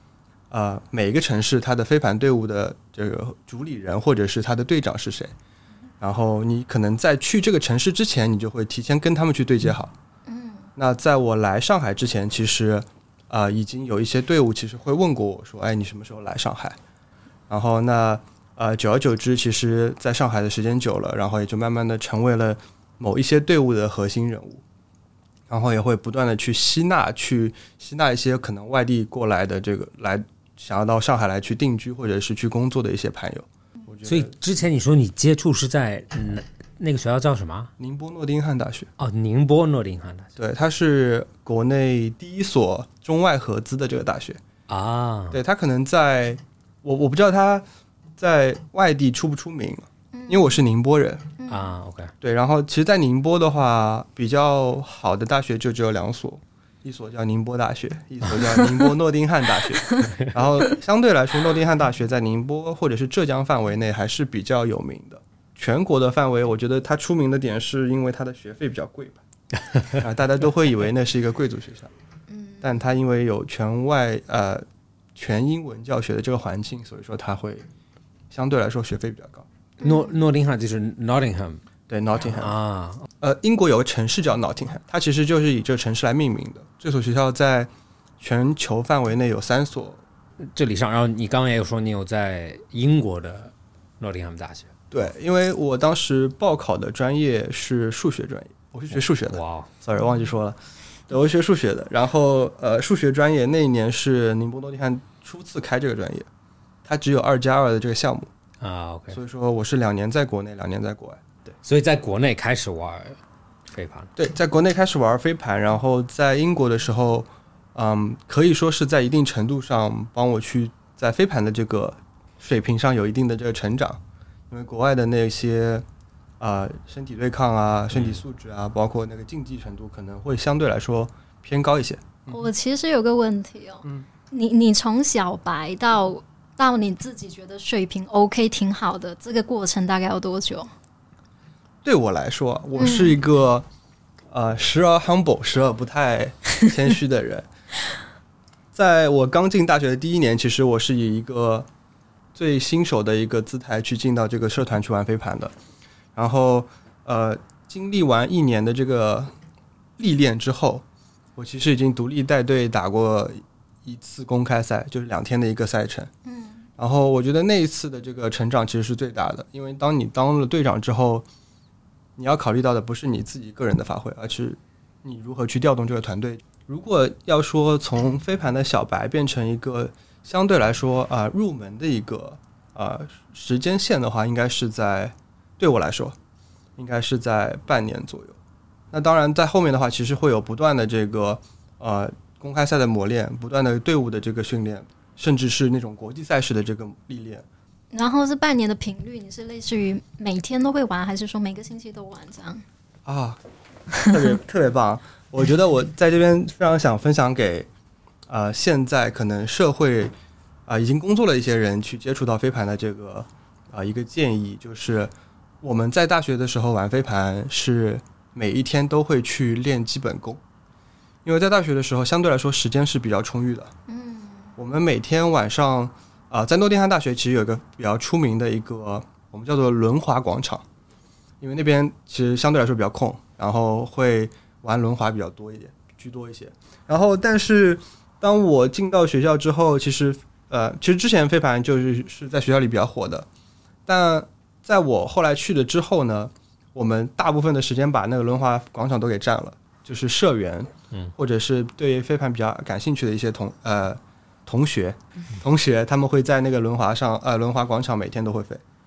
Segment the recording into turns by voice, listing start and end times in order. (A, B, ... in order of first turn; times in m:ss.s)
0:00.5-0:05.3 A
0:06.0-0:09.9 A
0:10.3-0:10.7 B
0:10.8-0:16.8 A
0:17.5-0:24.6 A
0:25.5-0:34.3 A
0:34.0-0:37.7 C
0:37.8-0:38.9 A
0:39.0-0:40.3 C
0:40.4-0:44.4 A
0:44.7-0:45.4 C
0:45.3-0:47.6 A
0:48.2-0:51.3 A
0:50.1-0:50.6 B
0:51.4-0:51.7 B
0:51.5-0:52.1 C
0:52.2-1:09.2 A
1:00.0-1:00.3 C
1:09.7-1:10.0 C
1:10.0-1:11.9 A
1:12.3-1:12.7 B
1:12.6-1:14.6 A
1:15.2-1:17.7 A
1:18.3-1:19.5 A
1:19.8-1:21.6 C
1:19.8-1:20.1 B
1:21.9-1:22.5 A
1:22.4-1:23.1 C
1:23.2-1:30.0 A
1:30.5-1:34.7 C
1:34.9-1:40.6 A
1:39.3-1:39.7 C
1:41.1-1:46.3 A
1:46.8-1:48.3 A
1:48.6-1:49.2 C
1:49.1-1:51.5 A
1:51.6-1:54.1 C
1:54.2-2:05.8 A
2:06.4-2:12.5 A
2:07.9-2:08.2 C
2:12.3-2:20.7 B
2:21.8-2:23.7 A
2:22.8-2:23.2 B
2:24.3-2:27.5 A
2:28.7-2:31.7 A
2:32.4-2:35.5 A
2:36.2-2:39.3 A
2:40.0-2:40.8 A
2:41.4-2:46.1 A
2:46.3-2:46.6 B
2:46.8-2:51.2 A
2:52.2-3:06.2 A
3:06.8-3:08.4 A
3:08.9-3:17.4 A
3:17.9-3:22.6 B
3:23.1-3:23.4 A
3:24.0-3:27.7 A
3:28.3-3:30.1 A
3:30.7-3:40.4 A
3:41.2-3:43.7 A
3:43.9-3:44.5 B
3:44.6-3:50.6 A
3:51.4-4:03.3 A
4:03.9-4:18.6 A